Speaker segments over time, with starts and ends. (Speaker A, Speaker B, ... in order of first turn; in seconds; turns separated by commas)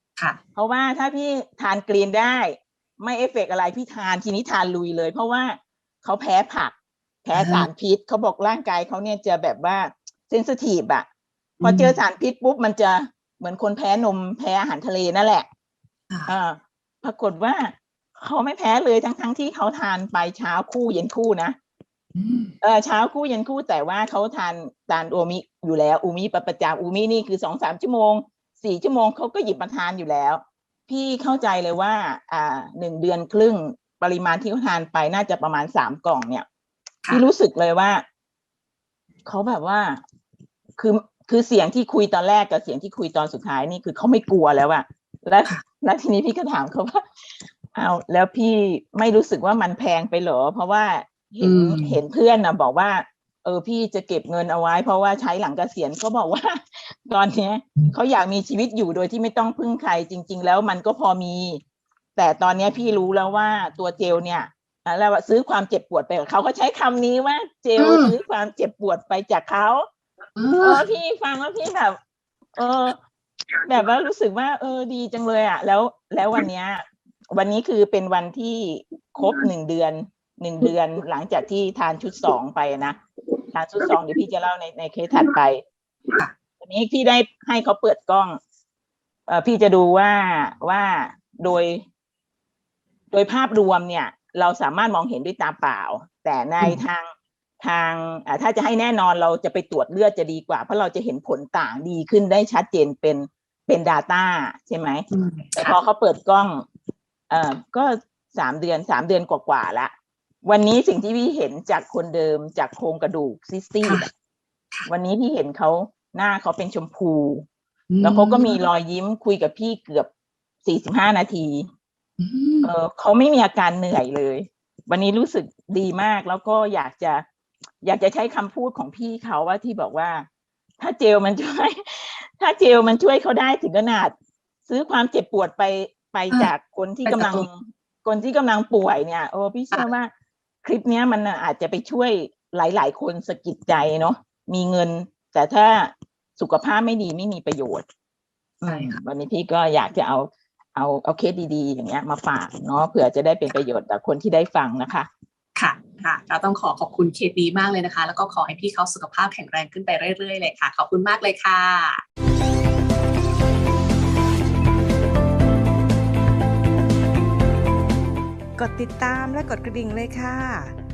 Speaker A: 0.6-11.1, Speaker B: 7.3-7.7, Speaker B: 11.6-11.9, Speaker A: 11.6-15.5, Speaker A: 16.3-21.5, Speaker B: 22.1-22.5, Speaker A: 22.6-36.4, Speaker A: 37.1-38.0, Speaker A: 39.2-40.0, Speaker A: 40.8-47.0, Speaker A: 47.7-61.6, Speaker B: 51.4-52.0, Speaker A: 62.1-69.8, Speaker B: 67.8-68.1, Speaker B: 70.4-70.9, Speaker A: 70.6-71.9, Speaker A: 72.5-73.0, Speaker A: 73.7-83.0, Speaker A: 83.5-85.6, Speaker B: 83.8-84.2, Speaker A: 86.6-88.4, Speaker A: 89.3-91.8, Speaker A: 93.1-97.1, Speaker A: 97.6-105.0, Speaker B: 105.1-105.8, Speaker A: 105.5-106.6, Speaker A: 107.3-109.9, Speaker A: 110.4-114.1, Speaker A: 114.9-117.4, Speaker B: 117.9-118.6, Speaker A: 118.0-120.1, Speaker A: 120.6-121.7, Speaker B: 122.2-122.7, Speaker A: 122.6-127.2, Speaker A: 127.8-130.2, Speaker A: 130.8-134.1, Speaker A: 134.7-140.1, Speaker B: 137.1-137.5, Speaker A: 140.6-147.8, Speaker A: 148.6-155.1, Speaker B: 148.7-149.0, Speaker B: 155.6-162.0, Speaker C: 168.6-170.8